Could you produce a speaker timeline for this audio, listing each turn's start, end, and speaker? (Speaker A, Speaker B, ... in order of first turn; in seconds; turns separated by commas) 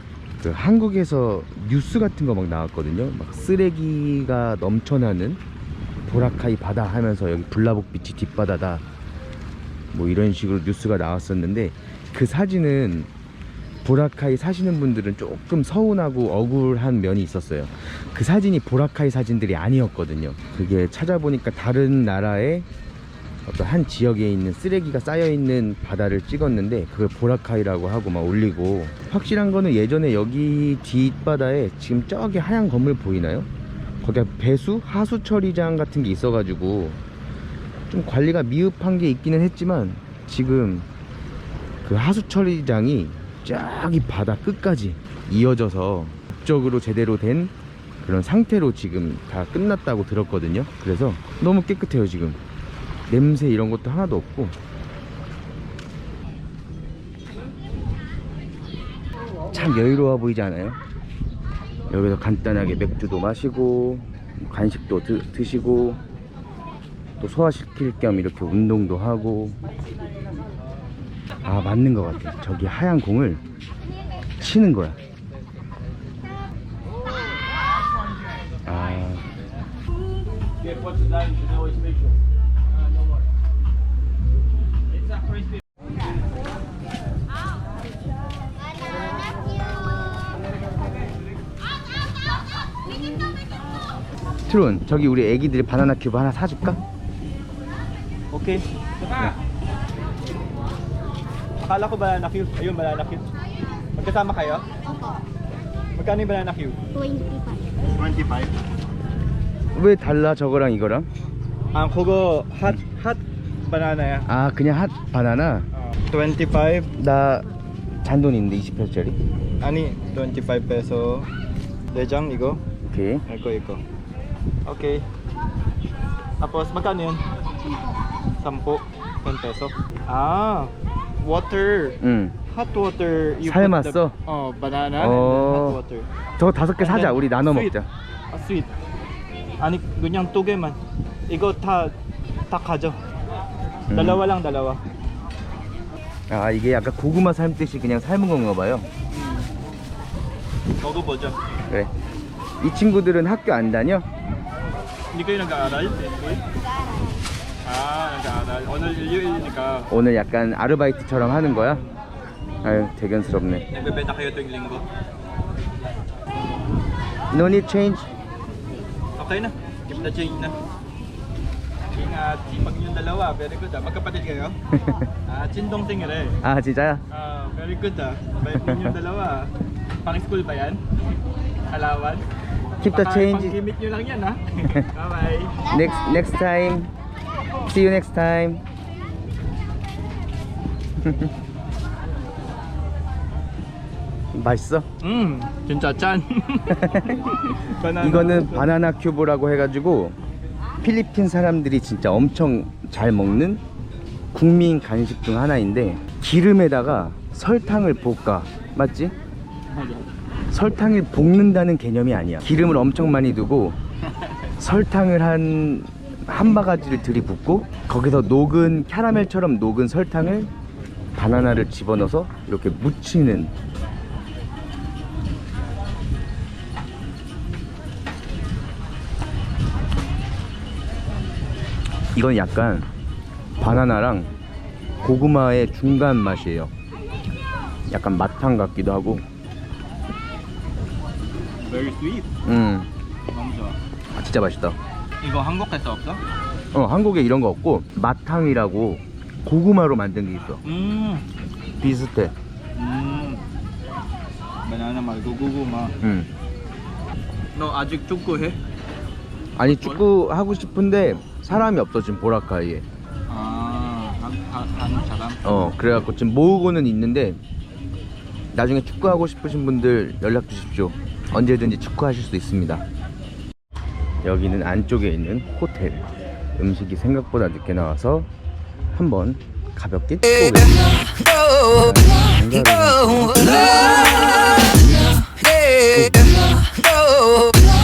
Speaker A: 0.4-5.4, Speaker A: 6.1-8.8, Speaker A: 9.9-13.1, Speaker A: 13.8-22.7, Speaker A: 23.5-33.5, Speaker A: 34.0-37.0, Speaker A: 37.9-40.9, Speaker A: 41.8-52.4, Speaker A: 53.1-54.6, Speaker A: 59.5-60.8, Speaker A: 61.9-66.0, Speaker A: 67.2-69.6, Speaker A: 71.4-73.4, Speaker A: 74.4-75.0, Speaker A: 78.7-79.3, Speaker A: 94.5-96.8, Speaker B: 98.3-98.6, Speaker B: 101.6-103.3, Speaker B: 104.0-104.7, Speaker B: 106.0-106.8, Speaker B: 107.9-108.5, Speaker A: 109.7-111.1, Speaker B: 111.7-114.3, Speaker A: 114.3-115.7, Speaker B: 115.7-116.9, Speaker A: 117.0-117.5, Speaker A: 118.0-119.2, Speaker B: 119.6-121.3, Speaker B: 121.9-122.6, Speaker A: 122.9-123.2, Speaker B: 123.3-123.8, Speaker B: 124.7-125.1, Speaker B: 126.4-127.2, Speaker B: 128.4-136.1, Speaker A: 132.0-132.3, Speaker A: 133.4-134.2, Speaker A: 135.0-135.8, Speaker A: 136.4-137.9, Speaker B: 136.8-137.8, Speaker B: 138.3-138.7, Speaker B: 139.6-140.8, Speaker B: 141.3-141.9, Speaker B: 142.5-143.0, Speaker A: 143.9-144.2, Speaker B: 143.9-144.8, Speaker A: 146.3-148.9, Speaker B: 149.1-149.5, Speaker B: 150.8-151.4, Speaker A: 152.6-154.1, Speaker B: 155.1-156.4, Speaker B: 157.6-159.9, Speaker A: 159.9-161.8, Speaker A: 162.6-163.7, Speaker B: 163.7-164.9, Speaker A: 167.3-168.1, Speaker B: 169.2-170.6, Speaker B: 171.9-174.6, Speaker A: 174.7-175.1, Speaker B: 175.3-176.4, Speaker A: 176.4-177.0, Speaker B: 177.1-179.5, Speaker A: 178.5-179.0, Speaker B: 180.0-180.8, Speaker B: 181.7-182.3, Speaker A: 182.8-183.6, Speaker B: 182.8-185.6, Speaker A: 185.7-186.9, Speaker A: 187.7-188.6, Speaker A: 191.0-191.3, Speaker A: 194.3-194.9, Speaker B: 195.0-198.8, Speaker A: 196.7-197.3, Speaker A: 198.0-200.2, Speaker A: 200.8-203.6, Speaker A: 204.3-209.2, Speaker B: 209.7-210.1, Speaker A: 210.5-213.8, Speaker A: 214.6-220.5, Speaker A: 221.2-223.5, Speaker A: 232.2-232.9, Speaker A: 233.6-234.3, Speaker A: 235.0-236.7, Speaker A: 237.9-239.2, Speaker B: 241.6-242.3, Speaker A: 242.4-242.9, Speaker B: 243.3-243.8, Speaker A: 244.1-244.8, Speaker B: 245.2-246.2, Speaker A: 246.7-250.6, Speaker B: 250.6-251.2, Speaker A: 251.8-252.3, Speaker B: 252.8-253.4, Speaker B: 254.7-256.0, Speaker A: 256.0-256.3, Speaker B: 257.6-258.6, Speaker A: 259.6-262.9, Speaker B: 263.3-265.5, Speaker A: 265.4-267.4, Speaker A: 268.5-272.9, Speaker A: 274.2-278.3, Speaker A: 278.9-280.7, Speaker A: 281.6-283.7, Speaker A: 285.8-286.3